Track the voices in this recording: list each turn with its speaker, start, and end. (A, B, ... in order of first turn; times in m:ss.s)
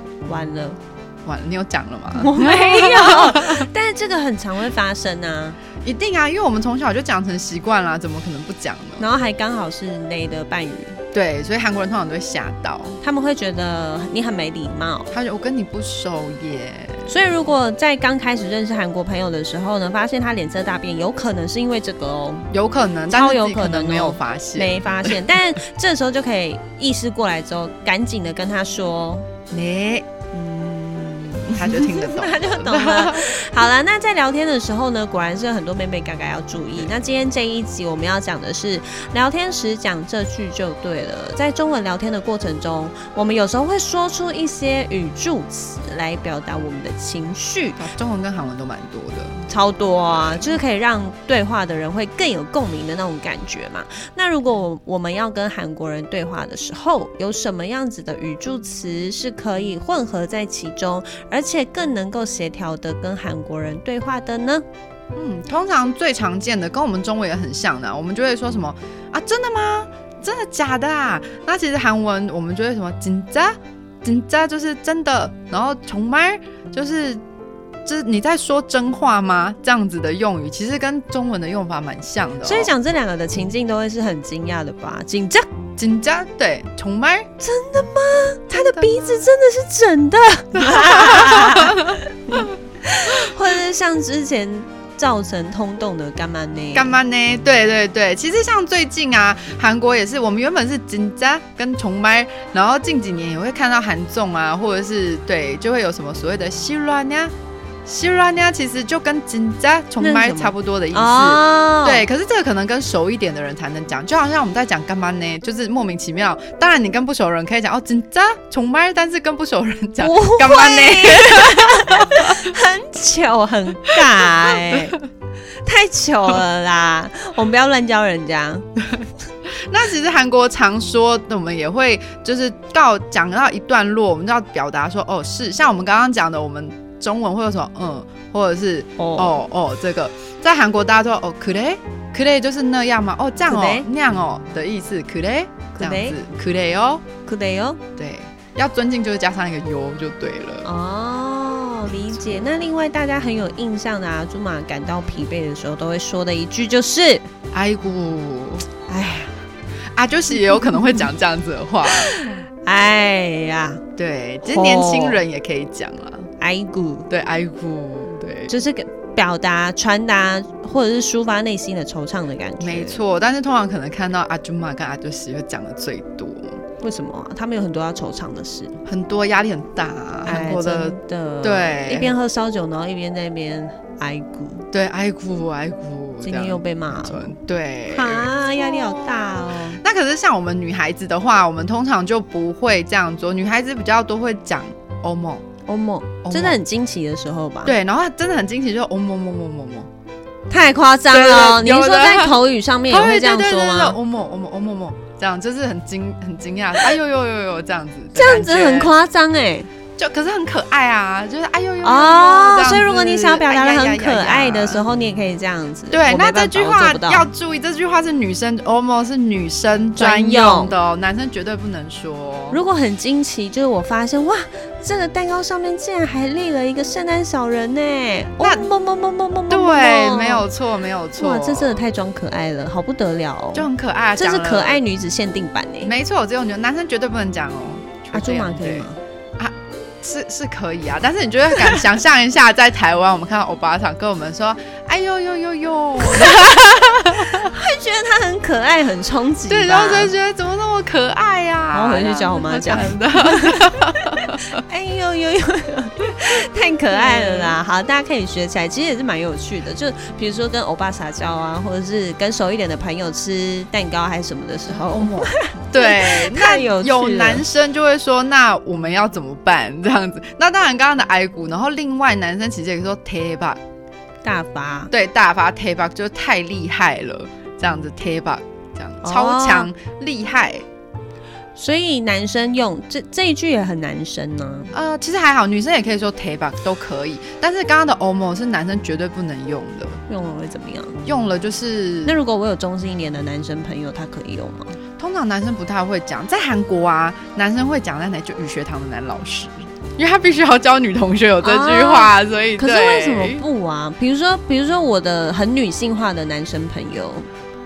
0:00.2-0:00.8 A
0:01.3-0:03.7 B
0:02.1-0:05.6 A
0:05.8-0:09.1 B
0:09.0-0:11.0 A
0:11.1-0:13.0 B
0:13.0-0:15.1 A
0:15.1-0:17.1 B
0:17.1-0:22.5 A
0:22.5-0:25.2 B
0:23.1-0:29.3 A
0:29.5-0:30.1 B
0:30.3-0:47.9 A
0:31.5-0:33.4 B
0:47.8-0:49.5 B
0:49.5-1:04.6 A
0:50.0-0:50.6 B
1:05.2-1:17.2 B
1:17.8-1:22.7 B
1:22.4-1:25.5 A
1:25.8-1:27.3 B
1:27.4-1:37.0 A
1:28.5-1:29.2 B
1:30.5-1:32.0 B
1:36.7-1:47.3 B
1:47.9-2:02.3 B
1:50.0-1:52.0 A
2:00.0-2:05.0 A
2:04.0-2:05.0 B
2:05.6-2:08.6 A
2:09.7-2:27.0 B
2:19.0-2:19.4 A
2:23.5-2:23.9 A
2:25.7-2:26.2 A
2:27.2-2:27.8 A
2:28.0-2:30.7 B
2:30.6-2:37.3 A
2:37.5-2:38.6 B
2:38.9-2:39.4 A
2:40.0-2:42.1 B
2:40.6-2:41.0 A
2:41.9-2:43.8 A
2:44.0-2:46.3 B
2:44.4-2:45.2 A
2:46.4-2:47.1 A
2:47.1-2:48.6 B
2:48.5-2:53.0 A
2:52.6-2:56.6 B
2:56.8-2:58.8 A
2:58.8-3:02.2 B
3:00.2-3:04.7 A
3:04.7-3:15.4 B
3:06.2-3:07.3 A
3:07.9-3:09.8 A
3:15.7-3:17.8 A
3:16.2-3:16.6 B
3:17.6-3:19.9 B
3:20.5-3:24.0 A
3:21.1-3:22.4 B
3:22.9-3:28.9 B
3:28.2-3:29.7 A
3:30.0-3:34.9 B
3:31.8-3:37.3 A
3:35.9-3:42.6 B
3:40.0-3:40.8 A
3:42.5-3:50.4 A
3:48.4-3:48.7 B
3:49.5-3:51.8 B
3:51.2-3:55.9 A
3:53.5-3:54.8 B
3:55.8-3:58.9 B
3:58.1-3:59.0 A
3:59.4-4:07.5 B
4:06.0-4:06.6 A
4:07.3-4:10.1 A
4:09.5-4:14.4 B
4:11.7-4:27.4 A
4:16.9-4:17.6 B
4:24.7-4:33.6 B
4:34.2-4:34.9 A
4:34.9-4:40.6 B
4:39.0-4:39.7 A
4:41.6-4:44.7 A
4:44.7-4:50.0 B
4:50.1-4:51.0 A
4:51.0-4:52.2 B
4:52.0-4:54.8 A
4:55.0-5:03.4 B
5:01.4-5:07.3 A